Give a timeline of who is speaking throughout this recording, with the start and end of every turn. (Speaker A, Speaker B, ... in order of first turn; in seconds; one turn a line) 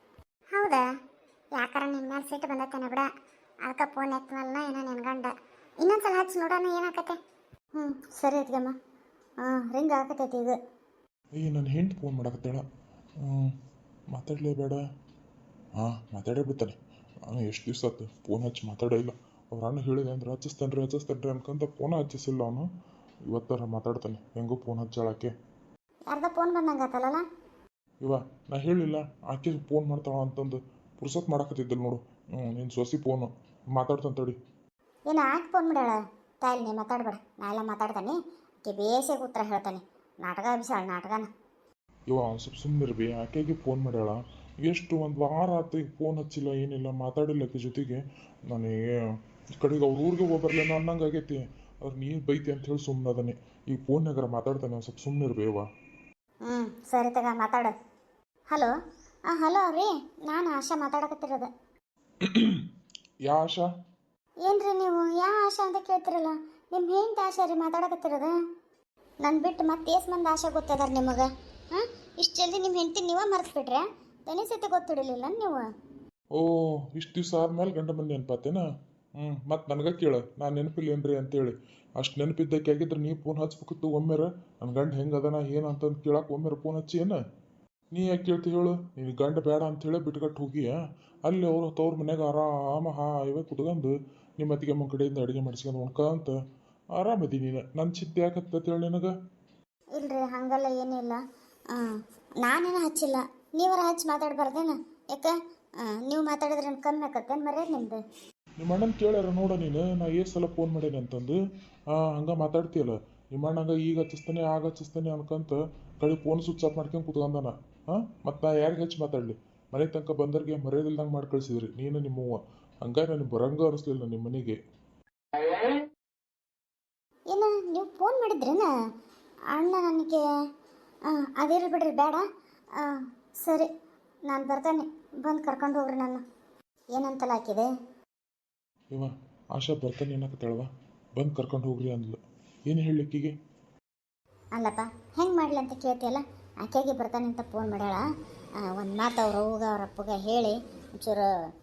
Speaker A: 1.6-3.0
Speaker B: 2.1-3.0
Speaker A: 3.9-4.8
Speaker B: 4.6-5.3
Speaker B: 5.8-7.0
Speaker A: 7.8-8.8
Speaker A: 9.4-10.6
Speaker C: 11.3-12.6
Speaker C: 13.2-13.6
Speaker C: 14.1-14.8
Speaker C: 15.8-16.8
Speaker C: 17.3-22.7
Speaker C: 23.3-25.3
Speaker A: 26.1-27.2
Speaker C: 28.0-34.4
Speaker A: 35.1-41.3
Speaker C: 42.1-48.8
Speaker C: 49.6-55.7
Speaker A: 56.5-57.7
Speaker A: 59.3-61.5
Speaker C: 62.2-62.6
Speaker C: 63.2-63.7
Speaker A: 64.4-68.4
Speaker A: 69.2-75.7
Speaker C: 76.3-78.7
Speaker C: 79.2-87.2
Speaker C: 87.9-96.4
Speaker C: 96.9-99.1
Speaker A: 100.0-101.2
Speaker A: 101.7-108.0
Speaker C: 108.6-111.4
Speaker C: 111.9-124.6
Speaker A: 127.3-128.7
Speaker A: 129.5-130.2
Speaker A: 131.1-132.2
Speaker A: 132.8-133.7
Speaker A: 134.3-136.2
Speaker A: 136.9-137.7
Speaker C: 138.9-143.3
Speaker A: 144.6-148.1
Speaker A: 148.6-151.3